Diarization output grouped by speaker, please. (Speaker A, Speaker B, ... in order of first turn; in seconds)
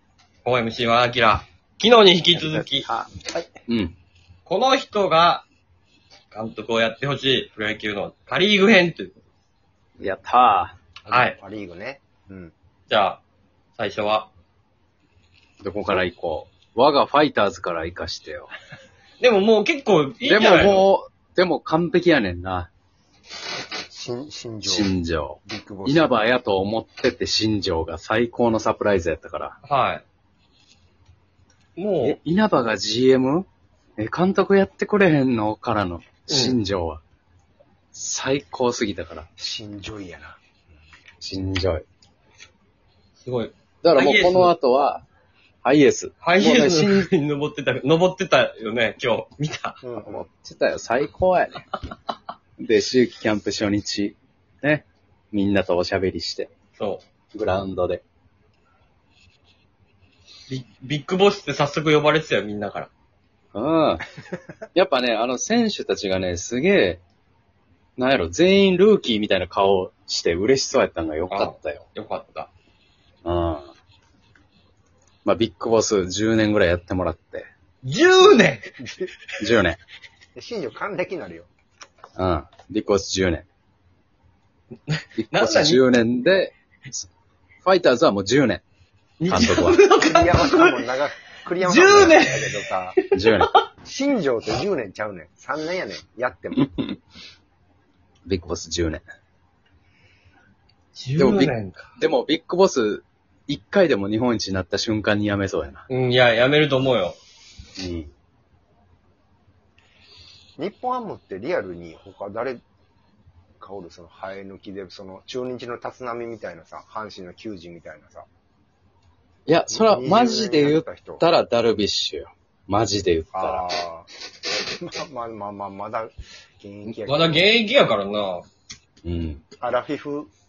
Speaker A: 0.4-2.9, 4.5-5.5, 6.3-9.2, 11.1-11.4, 12.9-13.2, 13.8-14.3, 19.2-20.9, 29.6-30.0, 31.8-32.2, 36.3-36.6, 43.2-44.5, 46.2-49.8, 56.8-57.0, 60.5-62.9, 71.3-72.5, 77.8-78.7, 84.9-85.8, 89.2-91.0, 91.6-93.6, 100.9-101.9, 105.9-107.2, 127.1-128.5
Speaker B: 2.3-4.0, 10.0-10.8, 15.6-18.5, 20.3-22.7, 24.6-29.6, 32.0-33.5, 34.0-37.0, 37.9-39.3, 41.2-41.9, 43.8-45.0, 45.6-47.1, 50.1-51.7, 52.6-56.5, 57.3-58.0, 63.5-64.0, 64.7-67.0, 68.0-71.9, 73.2-73.7, 75.2-77.5, 79.4-79.8, 82.2-83.5, 85.2-87.1, 87.6-88.6, 89.3-89.8, 93.1-93.5, 98.3-99.0, 101.2-105.8, 107.8-108.1, 119.5-123.6, 129.1-129.4
Speaker C: 11.2-12.5, 23.9-24.9, 25.4-26.2, 39.4-40.4, 49.8-50.3, 78.8-79.1, 80.4-81.5, 90.0-93.0, 93.8-96.7, 110.6-112.6, 113.6-118.3, 119.7-121.2, 123.3-124.1, 124.8-127.5, 129.6-130.3